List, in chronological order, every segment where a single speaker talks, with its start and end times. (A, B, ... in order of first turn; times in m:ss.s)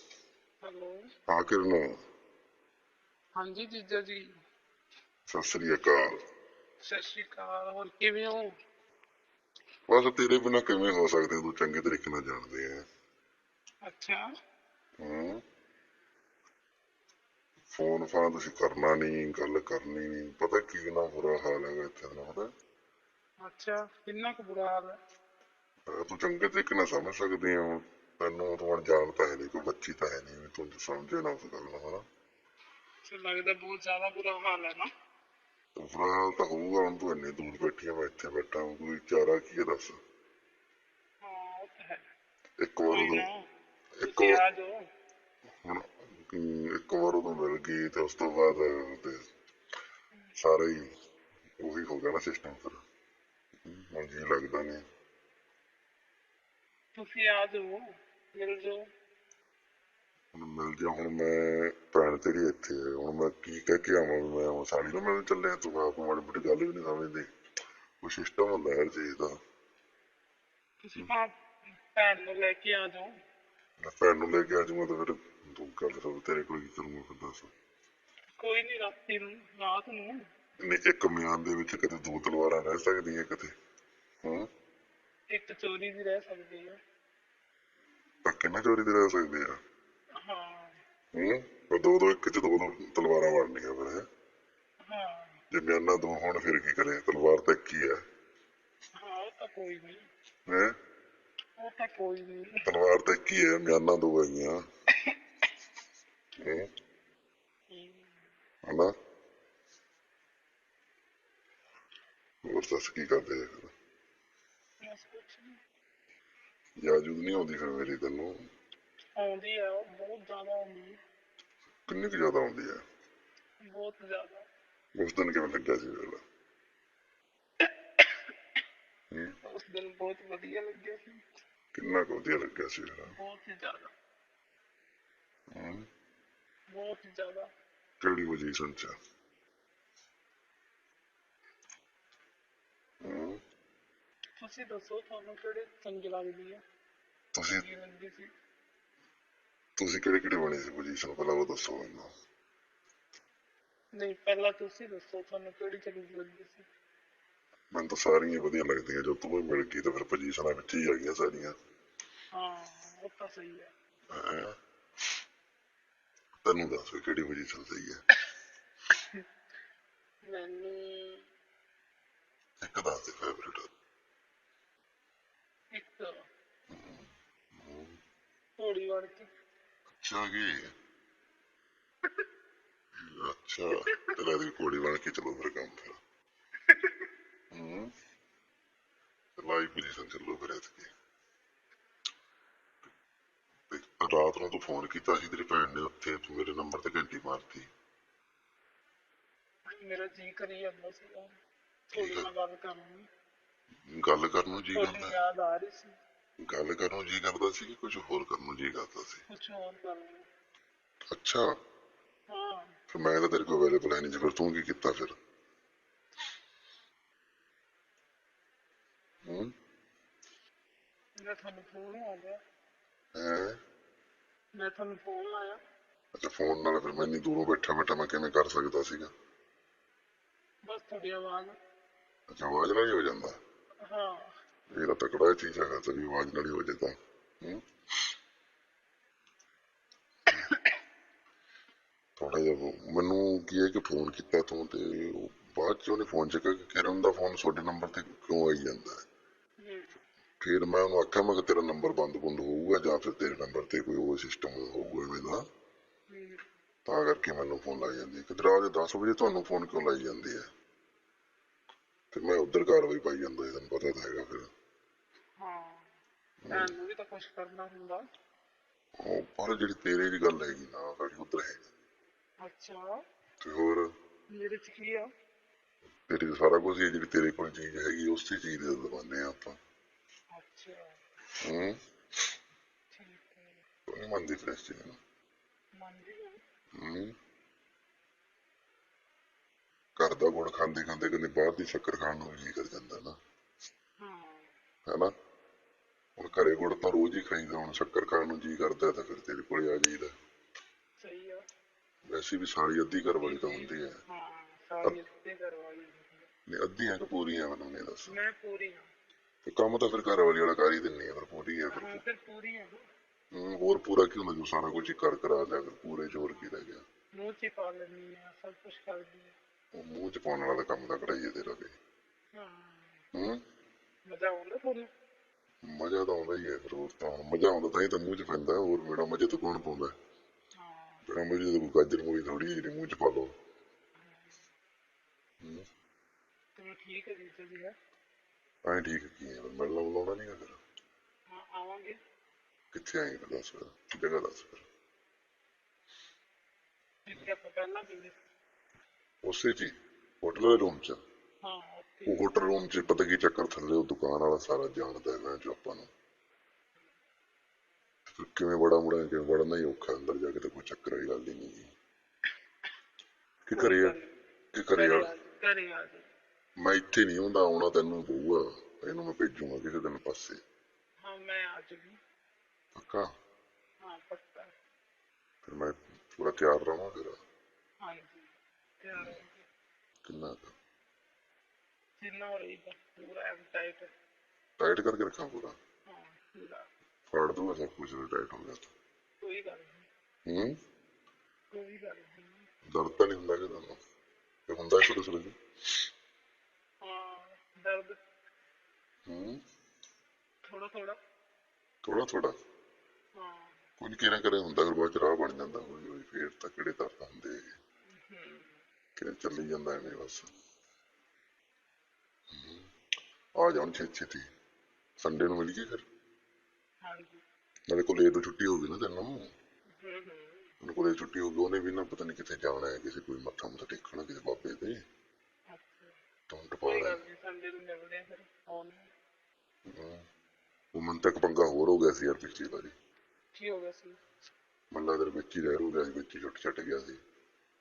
0:00.6-0:01.0 A
0:01.3-0:01.8 B
0:03.4-0:04.2 A
0:05.3-0:06.1 B
0:06.8-0:08.5 A
0:09.9-0:12.8 B
0:13.8-0:14.2 A
0:15.0-0:15.4 B
0:17.7-0:22.4 B
0:23.4-0:25.0 A
0:25.9-0:32.0 B
0:33.0-0:34.9 A
0:35.8-0:40.0 B
0:41.2-0:42.0 A
0:42.6-0:43.2 B
0:42.9-0:43.4 A
0:44.0-0:44.4 B
0:44.0-0:44.7 A
0:45.6-0:49.2 B
0:50.4-0:50.9 B
0:51.6-0:52.8 B
0:53.6-0:54.8 B
0:56.9-0:58.8 A
1:00.3-1:07.2 B
1:08.0-1:09.3 B
1:10.8-1:13.1 A
1:13.8-1:17.5 B
1:18.4-1:20.2 A
1:20.6-1:23.5 B
1:25.3-1:26.8 A
1:28.2-1:29.5 B
1:30.2-1:30.7 A
1:31.1-1:34.0 B
1:34.8-1:35.3 A
1:35.5-1:38.0 B
1:39.0-1:40.0 A
1:41.6-1:42.5 A
1:42.6-1:44.5 B
1:46.4-1:46.7 B
1:47.7-1:48.2 A
1:48.6-1:48.9 B
1:52.4-1:53.7 B
1:54.8-1:55.5 A
1:56.8-1:58.4 B
1:59.2-2:01.0 A
2:01.9-2:02.8 B
2:03.6-2:04.4 A
2:04.9-2:06.2 B
2:09.1-2:09.4 B
2:09.4-2:11.2 A
2:11.7-2:13.1 B
2:13.2-2:13.9 A
2:15.5-2:15.8 B
2:16.7-2:17.5 A
2:18.0-2:18.9 B
2:23.0-2:23.4 B
2:24.4-2:26.6 A
2:27.3-2:27.6 B
2:27.6-2:28.3 A
2:29.8-2:32.1 B
2:34.0-2:36.6 A
2:37.7-2:41.5 B
2:42.3-2:43.7 A
2:44.1-2:44.5 B
2:46.4-2:48.0 B
2:50.3-2:51.2 A
2:52.6-2:53.7 B
2:55.7-2:56.2 A
2:56.7-2:58.0 B
2:58.6-2:59.3 A
3:00.0-3:00.6 B
3:03.0-3:06.0 B
3:06.7-3:07.0 A
3:07.5-3:07.9 B
3:09.4-3:10.9 B
3:13.7-3:17.7 B
3:19.7-3:21.3 A
3:21.9-3:23.0 A
3:21.9-3:22.3 B
3:23.9-3:25.2 B
3:24.7-3:25.9 A
3:26.4-3:29.2 B
3:29.3-3:30.2 A
3:31.1-3:31.4 B
3:32.3-3:32.7 A
3:32.9-3:35.1 B
3:39.2-3:39.5 B
3:41.2-3:42.4 A
3:43.1-3:43.6 B
3:44.6-3:45.6 A
3:46.1-3:49.1 B
3:50.7-3:51.6 A
3:52.3-3:53.4 B
3:53.8-3:54.3 A
3:54.7-3:57.6 B
4:00.3-4:00.6 A
4:02.2-4:08.9 B
4:09.6-4:09.9 A
4:10.4-4:15.4 B
4:16.1-4:16.4 A
4:16.8-4:20.4 B
4:22.1-4:24.5 B
4:25.4-4:25.9 A
4:26.4-4:26.7 B
4:26.5-4:28.0 A
4:29.0-4:31.7 B
4:32.4-4:32.8 A
4:33.4-4:33.9 B
4:34.3-4:35.1 A
4:36.0-4:39.6 B
4:40.4-4:40.8 A
4:41.4-4:41.8 B
4:42.9-4:43.6 A
4:43.9-4:45.0 B
4:45.8-4:46.4 A
4:46.8-4:47.1 B
4:50.0-4:53.2 B
4:54.0-4:54.5 A
4:56.2-5:00.1 B
5:01.0-5:01.4 A
5:02.1-5:03.9 B
5:03.2-5:06.3 A
5:06.5-5:08.2 B
5:08.0-5:08.9 A
5:09.4-5:12.0 B
5:11.7-5:12.8 A
5:13.3-5:16.8 B
5:17.2-5:19.3 A
5:19.8-5:21.7 B
5:22.4-5:23.0 A
5:23.1-5:23.4 B
5:24.0-5:24.9 A
5:25.6-5:29.9 B
5:30.6-5:31.0 A
5:31.0-5:33.3 B
5:34.0-5:34.4 A
5:36.6-5:37.7 A
5:38.7-5:40.6 B
5:41.3-5:42.0 A
5:42.7-5:44.6 B
5:47.0-5:48.2 A
5:49.2-5:51.0 B
5:51.4-5:52.2 A
5:52.1-5:55.9 B
5:58.1-6:01.7 B
6:03.4-6:04.0 B
6:03.5-6:04.2 A
6:04.5-6:05.1 B
6:04.8-6:06.1 A
6:06.6-6:10.4 B
6:11.0-6:12.0 A
6:12.7-6:13.0 B
6:13.8-6:14.5 A
6:15.4-6:17.2 B
6:17.8-6:19.4 A
6:20.0-6:20.5 B
6:22.0-6:23.9 A
6:24.6-6:25.5 B
6:25.9-6:26.6 A
6:27.1-6:28.7 B
6:29.2-6:29.9 A
6:30.3-6:30.5 B
6:31.5-6:32.4 A
6:32.7-6:33.8 B
6:34.5-6:35.3 B
6:36.8-6:38.0 A
6:39.1-6:39.4 B
6:40.5-6:41.0 A
6:41.8-6:42.4 B
6:43.2-6:43.6 A
6:43.8-6:47.4 B
6:47.9-6:48.6 A
6:49.0-6:50.3 B
6:52.3-6:52.7 B
6:53.4-6:54.3 B
6:55.0-6:55.8 B
6:56.8-6:57.2 A
6:57.7-6:59.1 B
6:59.8-7:00.5 A
7:00.6-7:04.7 B
7:05.5-7:05.9 A
7:06.3-7:07.0 B
7:06.6-7:08.9 A
7:09.7-7:10.0 B
7:10.8-7:12.7 B
7:13.3-7:14.0 A
7:14.7-7:17.0 B